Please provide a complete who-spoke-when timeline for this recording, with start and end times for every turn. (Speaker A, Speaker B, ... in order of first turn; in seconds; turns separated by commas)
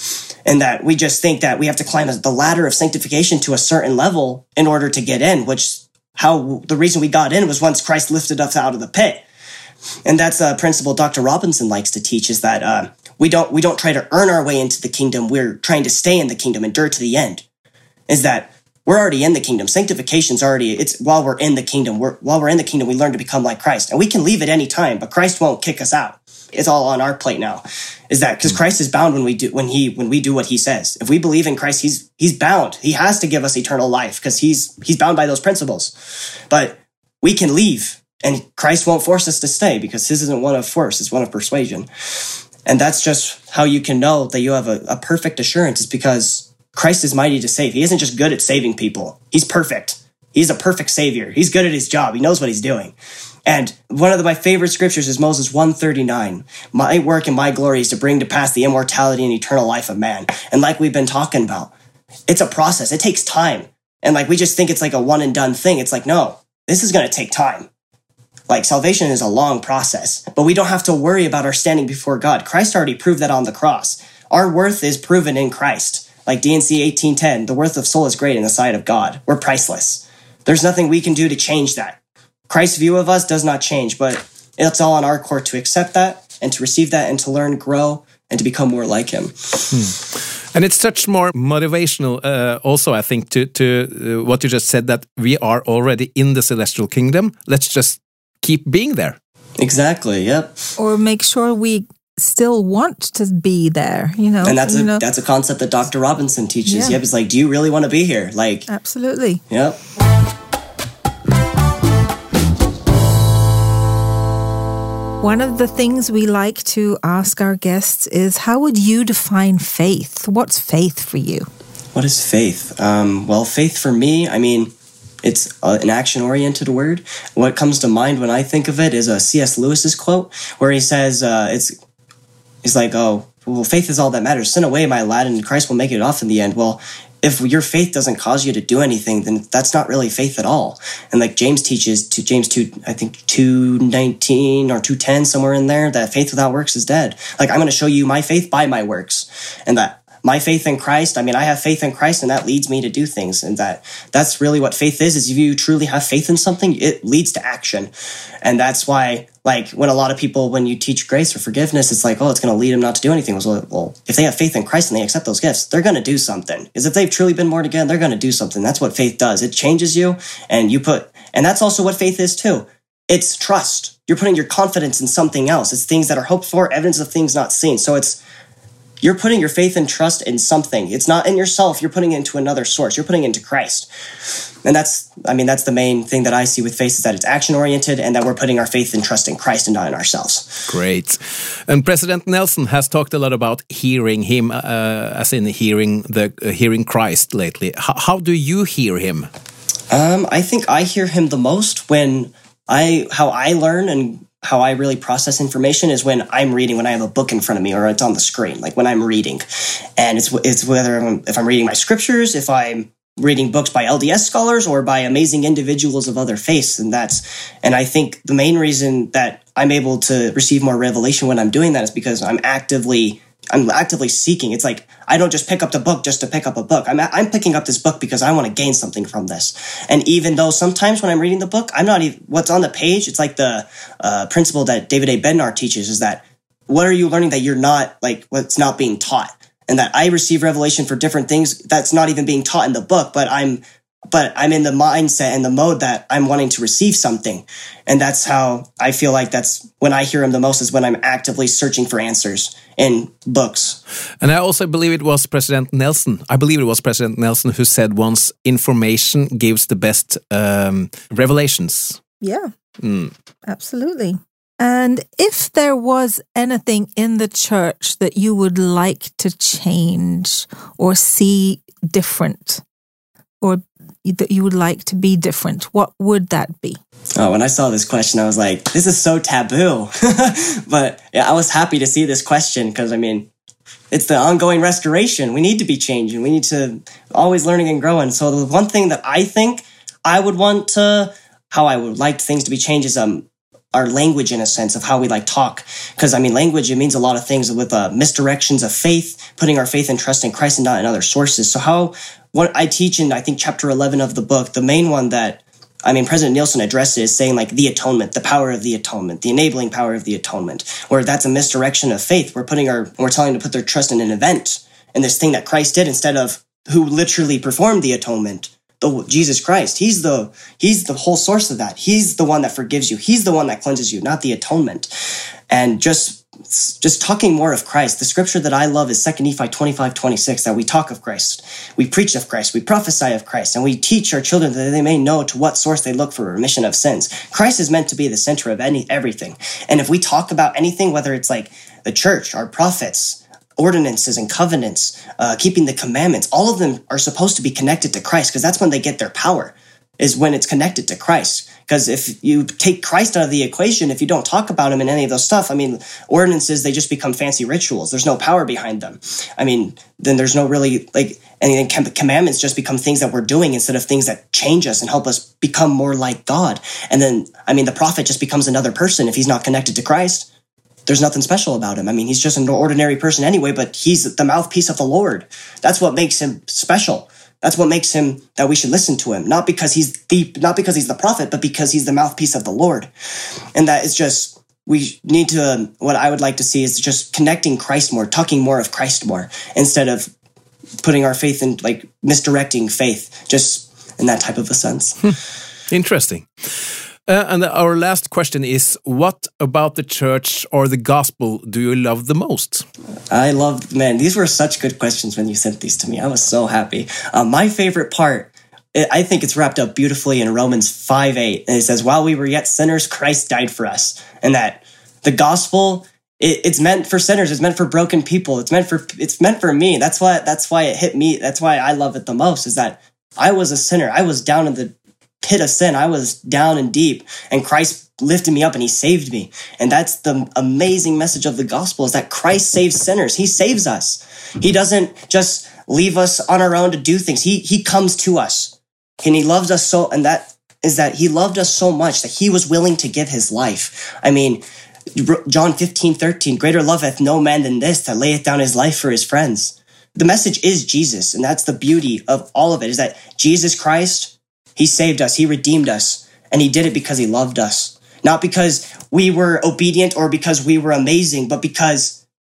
Speaker A: 0.5-9.2, Speaker A: 10.0-17.4, Speaker A: 18.1-35.9, Speaker A: 36.5-41.9, Speaker A: 42.6-52.9, Speaker A: 53.5-61.7, Speaker A: 62.3-67.7, Speaker A: 68.5-82.0, Speaker A: 82.5-89.8, Speaker B: 89.7-99.2, Speaker A: 99.6-100.5, Speaker C: 100.8-105.0, Speaker A: 104.4-108.7, Speaker C: 106.7-107.0, Speaker C: 108.7-109.4, Speaker A: 109.5-109.8, Speaker C: 115.2-121.5, Speaker A: 121.9-131.7, Speaker A: 132.6-178.2, Speaker A: 179.0-183.9, Speaker A: 184.6-190.7, Speaker B: 190.7-199.3, Speaker A: 199.9-253.8, Speaker B: 254.2-262.0, Speaker C: 262.2-262.5, Speaker B: 262.8-263.1, Speaker C: 263.5-272.6, Speaker C: 273.4-276.8, Speaker A: 277.2-283.3, Speaker A: 283.9-370.3, Speaker A: 370.9-382.9, Speaker A: 383.5-390.1, Speaker A: 390.8-395.1, Speaker B: 395.7-396.3, Speaker B: 397.1-402.6, Speaker A: 403.1-444.4, Speaker A: 444.9-462.0